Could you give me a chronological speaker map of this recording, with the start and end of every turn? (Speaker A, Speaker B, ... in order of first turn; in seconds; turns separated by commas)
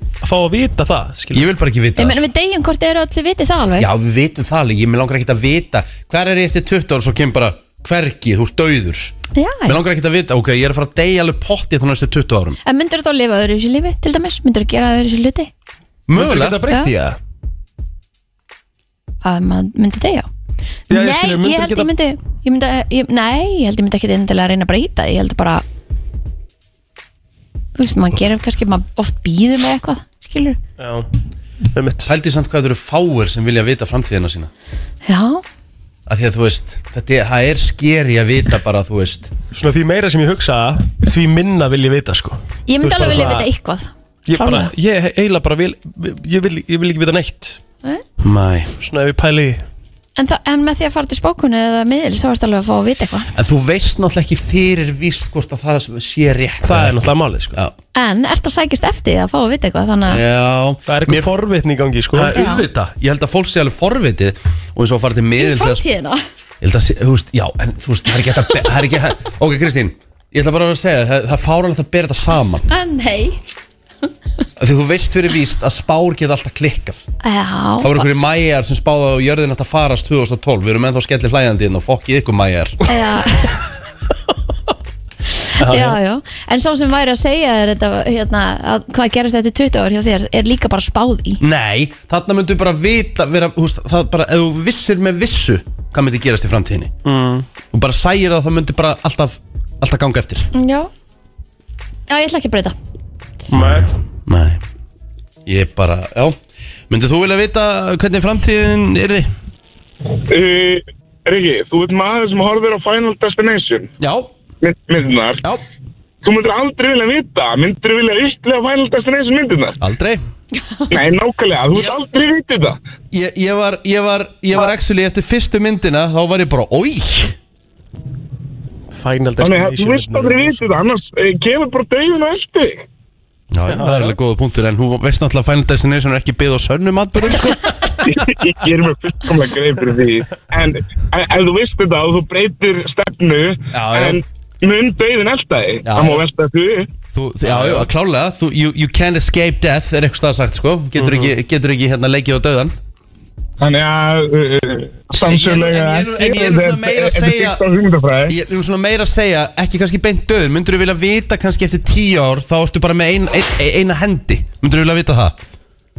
Speaker A: 0.2-1.5, Speaker B: 1.3-2.2, Speaker C: 2.0-3.9, Speaker B: 3.8-9.1, Speaker C: 9.3-9.8, Speaker B: 9.7-12.6, Speaker C: 12.6-15.5, Speaker B: 16.1-16.6, Speaker A: 16.1-17.2, Speaker C: 19.2-20.3, Speaker A: 20.9-21.9, Speaker C: 20.9-25.6, Speaker C: 27.8-30.6, Speaker A: 30.8-31.1, Speaker A: 31.7-32.1, Speaker B: 32.0-34.5, Speaker C: 35.0-35.4, Speaker B: 36.1-39.3, Speaker A: 39.5-43.5, Speaker C: 42.7-44.7, Speaker A: 44.3-47.6, Speaker B: 48.2-48.7, Speaker A: 48.8-49.6, Speaker C: 50.2-53.3, Speaker B: 53.3-57.7, Speaker A: 56.6-57.6, Speaker C: 57.9-60.2, Speaker B: 60.0-61.3, Speaker A: 60.9-62.3, Speaker B: 62.1-65.9, Speaker C: 62.3-62.6, Speaker C: 65.4-66.2, Speaker B: 66.6-72.7, Speaker C: 72.7-73.4, Speaker B: 74.6-77.1, Speaker C: 77.2-78.0, Speaker B: 77.8-82.8, Speaker C: 82.9-83.6, Speaker C: 85.5-91.4, Speaker A: 85.6-86.0, Speaker B: 91.4-96.9, Speaker A: 97.0-97.5, Speaker B: 97.7-100.5, Speaker C: 100.5-100.9, Speaker C: 102.1-102.8, Speaker A: 103.5-103.9, Speaker B: 103.5-104.6, Speaker B: 105.5-106.4, Speaker B: 106.9-109.3, Speaker D: 110.3-113.9, Speaker B: 114.0-114.3, Speaker D: 114.6-115.4, Speaker D: 116.2-119.8, Speaker B: 119.8-120.2, Speaker D: 120.9-122.8, Speaker B: 121.7-122.0, Speaker B: 123.1-127.4, Speaker A: 128.9-130.7, Speaker D: 129.4-132.9, Speaker B: 133.5-137.7, Speaker A: 133.7-134.2, Speaker D: 138.1-146.9, Speaker B: 143.7-144.2, Speaker B: 145.8-146.2, Speaker B: 147.1-152.8, Speaker A: 147.5-147.8, Speaker A: 150.9-151.3, Speaker D: 153.6-158.3, Speaker B: 155.2-157.6, Speaker B: 158.3-165.4